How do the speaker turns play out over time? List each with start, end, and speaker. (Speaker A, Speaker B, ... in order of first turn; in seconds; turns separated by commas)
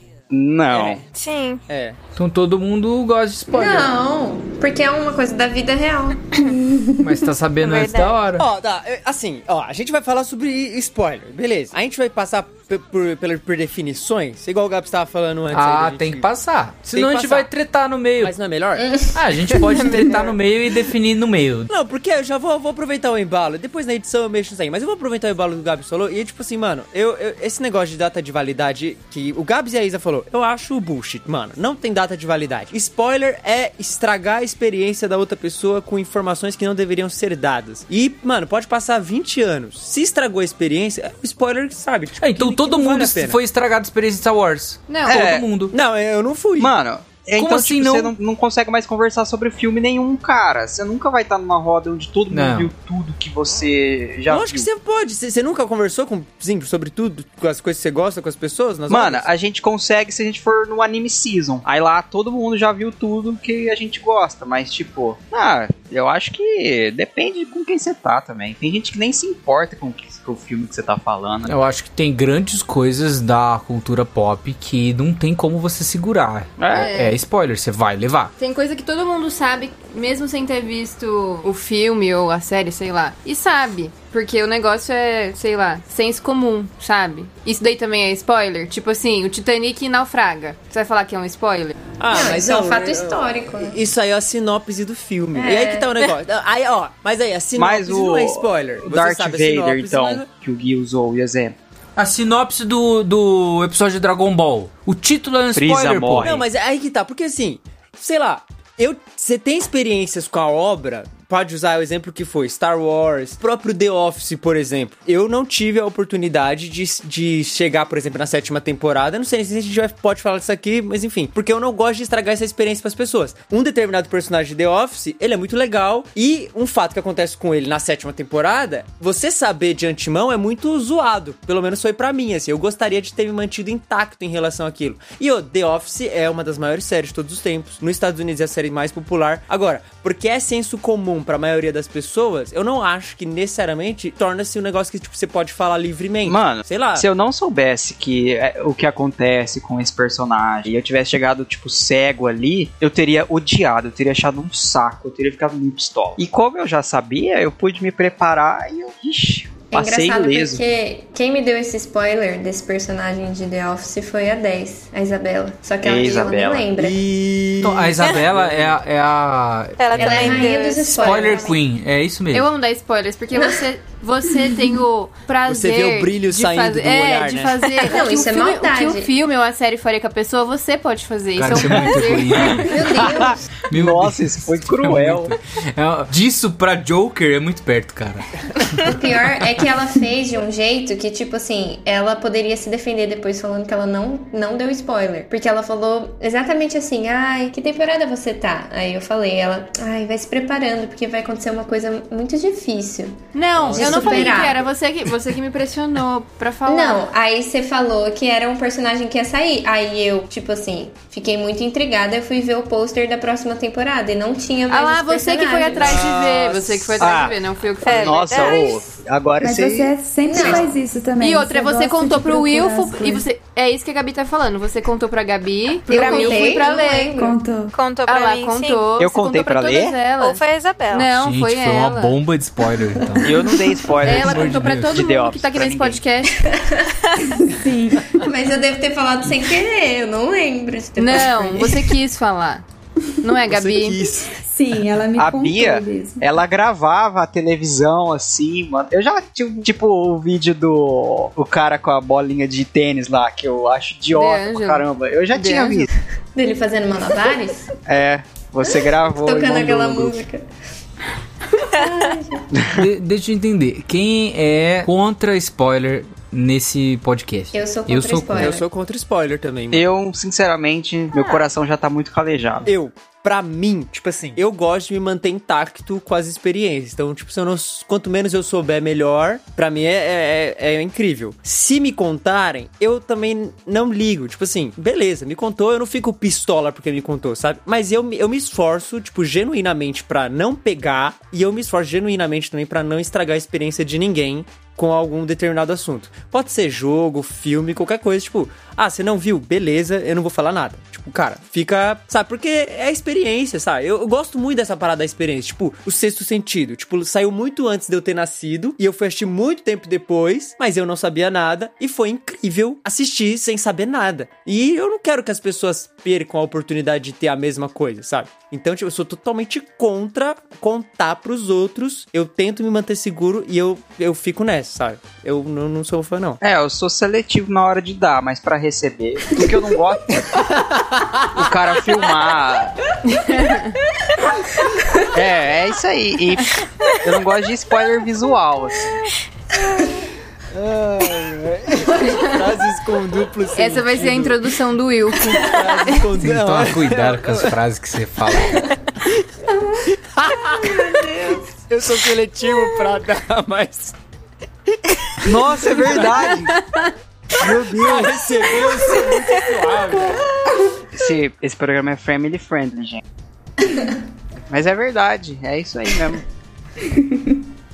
Speaker A: 0.3-1.0, Speaker B: 0.7-1.0, Speaker C: 1.1-1.6, Speaker B: 1.7-2.0, Speaker D: 2.1-3.9, Speaker E: 3.5-6.5, Speaker F: 6.4-7.1, Speaker D: 7.0-8.4, Speaker C: 7.6-8.1, Speaker B: 8.3-16.3, Speaker D: 15.5-18.3, Speaker B: 16.9-17.5, Speaker B: 18.2-18.9, Speaker E: 18.8-20.2, Speaker D: 19.1-21.7, Speaker B: 21.7-43.4, Speaker D: 42.2-45.7, Speaker G: 44.9-45.3, Speaker A: 45.0-45.4, Speaker B: 45.7-46.7, Speaker A: 46.6-54.7, Speaker D: 47.4-48.1, Speaker D: 52.3-52.7, Speaker B: 54.3-59.3, Speaker A: 58.9-71.5, Speaker D: 71.5-78.3, Speaker A: 76.6-76.9, Speaker G: 76.7-77.2, Speaker G: 78.4-91.8, Speaker B: 92.0-100.3, Speaker E: 92.1-93.8, Speaker E: 95.3-95.9, Speaker A: 97.5-101.5, Speaker D: 102.0-106.3, Speaker A: 105.5-106.4, Speaker B: 106.2-147.1, Speaker A: 146.2-160.6, Speaker E: 159.7-167.0, Speaker A: 165.8-166.7, Speaker B: 166.8-168.8, Speaker D: 167.6-172.5, Speaker C: 169.8-171.6, Speaker E: 169.9-171.6, Speaker G: 172.3-182.7, Speaker E: 173.3-173.6, Speaker B: 175.4-177.6, Speaker E: 177.8-179.1, Speaker D: 181.3-188.9, Speaker E: 182.4-183.4, Speaker A: 183.7-185.3, Speaker E: 188.8-204.7, Speaker G: 203.3-207.1, Speaker B: 203.6-204.4, Speaker E: 206.7-216.1, Speaker G: 214.7-218.4, Speaker B: 215.8-217.3, Speaker A: 217.0-219.9, Speaker C: 217.8-218.7, Speaker E: 218.4-218.8, Speaker F: 219.4-223.2, Speaker E: 220.2-220.8, Speaker G: 221.2-227.2, Speaker E: 225.9-227.3, Speaker C: 225.9-227.0, Speaker F: 227.2-227.7, Speaker C: 227.7-228.8, Speaker G: 228.1-230.4, Speaker A: 229.0-229.9, Speaker C: 230.2-231.1, Speaker G: 230.9-232.2, Speaker D: 231.2-233.3, Speaker A: 233.2-236.0, Speaker G: 234.0-236.4, Speaker D: 234.0-234.9, Speaker F: 237.3-238.2, Speaker E: 238.2-242.0, Speaker G: 241.0-242.6, Speaker G: 243.2-244.0, Speaker B: 243.5-244.3, Speaker F: 244.3-246.2, Speaker A: 245.2-255.9, Speaker G: 254.1-255.9, Speaker E: 256.3-257.7, Speaker A: 257.9-260.2, Speaker E: 259.1-260.5, Speaker E: 261.5-262.6, Speaker D: 262.7-268.5, Speaker E: 267.5-268.6, Speaker B: 268.3-269.9, Speaker A: 269.7-272.7, Speaker B: 272.6-326.4, Speaker A: 326.4-330.4, Speaker B: 330.5-331.4, Speaker A: 331.3-332.7, Speaker G: 333.4-333.7, Speaker A: 335.1-339.0, Speaker B: 340.5-344.5, Speaker G: 343.6-345.9, Speaker B: 345.3-347.5, Speaker D: 346.1-348.7, Speaker B: 349.8-353.9, Speaker A: 355.2-356.6, Speaker B: 355.2-356.2, Speaker G: 356.3-356.9, Speaker A: 357.4-358.5, Speaker B: 357.4-360.2, Speaker A: 360.9-363.0, Speaker E: 363.6-363.9, Speaker A: 364.5-366.2, Speaker F: 367.0-367.3